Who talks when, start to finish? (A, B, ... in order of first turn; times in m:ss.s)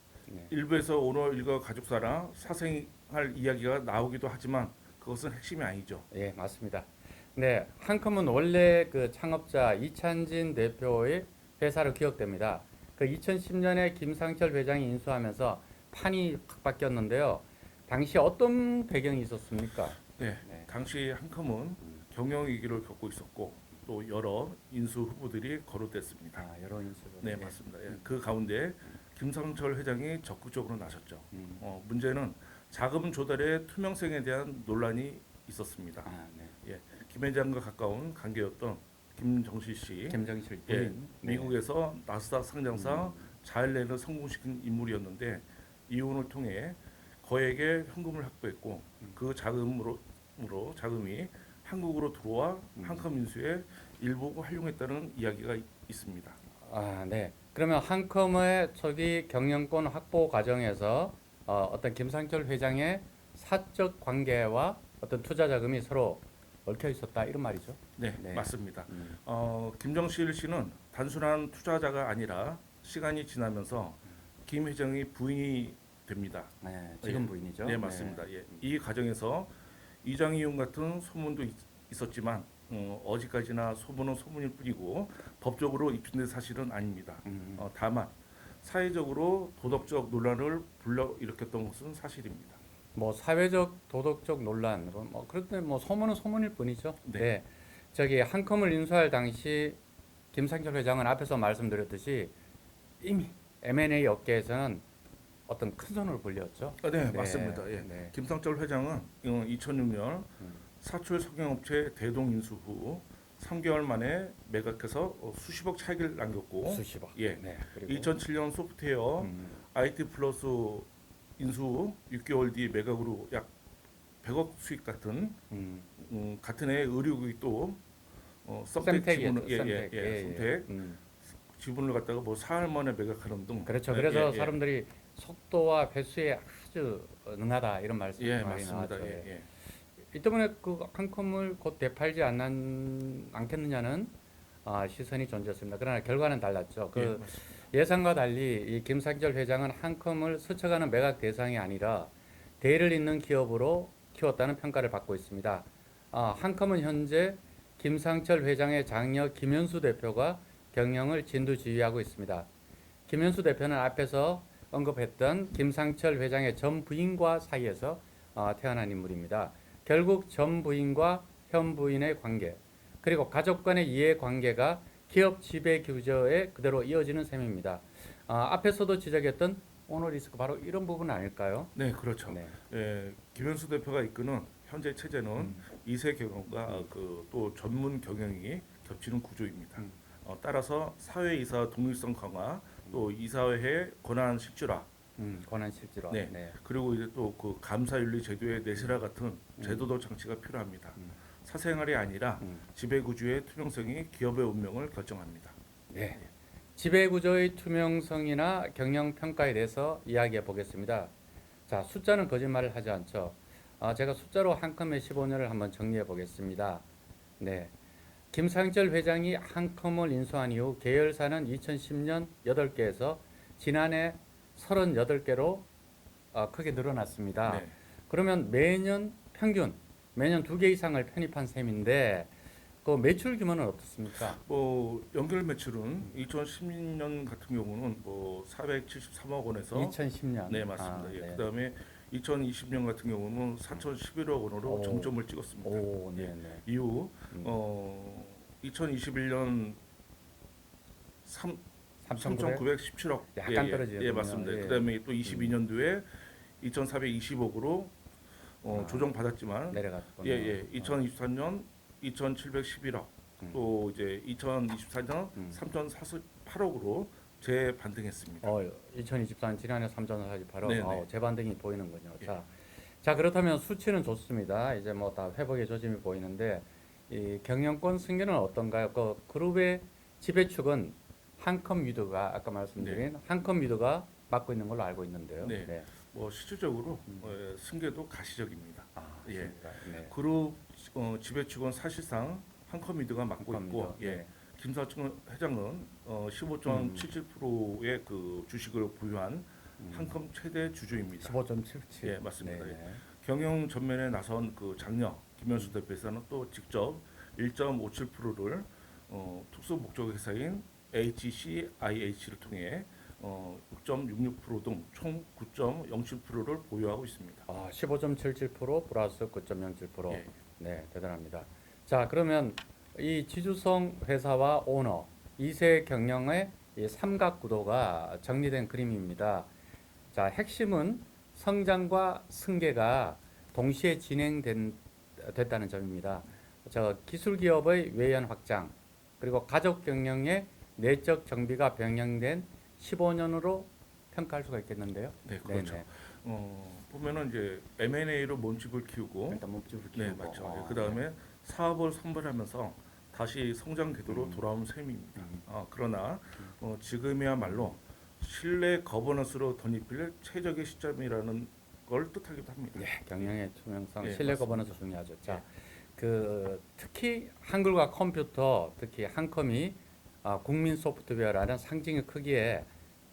0:00.5-0:06.1 A
0:06.1-0:20.7 B
0:20.2-0:26.4 A
0:26.4-0:28.1 B
0:27.2-0:36.1 A
0:31.3-0:31.6 B
0:36.0-0:36.6 B
0:36.6-0:56.4 A
0:40.1-0:41.6 B
0:42.7-0:43.3 B
0:52.8-0:53.1 B
0:56.6-1:09.2 B
1:08.0-1:16.5 A
1:16.6-1:18.6 B
1:17.0-1:32.6 A
1:27.2-1:27.6 B
1:33.0-1:39.8 B
1:40.3-1:42.3 B
1:43.0-1:44.8 B
1:45.5-1:48.1 B
1:46.8-2:03.5 A
1:56.6-1:58.1 B
1:59.2-1:59.6 B
2:04.2-2:05.4 A
2:05.5-2:05.9 B
2:06.0-2:07.8 A
2:08.4-2:10.7 A
2:08.8-2:11.0 B
2:11.5-2:14.6 A
2:13.7-2:19.3 B
2:18.2-2:19.5 A
2:20.0-2:24.1 B
2:24.6-2:42.5 B
2:26.9-2:27.4 A
2:43.1-3:01.7 B
3:01.8-3:14.9 A
3:02.3-3:02.6 B
3:15.2-3:16.6 B
3:16.1-3:25.6 A
3:19.6-3:19.9 B
3:25.9-3:31.1 B
3:31.7-3:36.8 B
3:37.4-3:37.7 B
3:38.3-3:45.7 B
3:46.3-3:52.3 B
3:47.5-3:47.7 A
3:52.8-3:54.4 B
3:54.4-4:09.8 A
3:59.7-4:01.4 B
4:04.6-4:06.6 B
4:11.2-4:11.6 A
4:12.0-4:12.7 B
4:12.2-4:17.9 A
4:13.4-4:15.6 B
4:18.6-4:28.5 A
4:18.7-4:19.1 B
4:19.7-4:21.0 B
4:28.4-4:45.9 B
4:30.6-4:31.1 A
4:42.8-4:43.0 A
4:45.4-5:01.4 A
4:47.1-4:47.3 B
4:49.0-4:50.1 B
4:53.4-4:54.3 B
4:56.7-4:57.1 B
4:59.8-5:00.2 B
5:01.2-5:03.0 B
5:02.0-5:17.5 A
5:17.5-5:29.5 B
5:30.1-5:45.9 B
5:45.3-6:03.3 A
5:49.3-5:51.0 B
5:54.1-5:54.4 B
5:55.2-5:55.4 B
6:02.8-6:12.7 B
6:04.0-6:05.4 A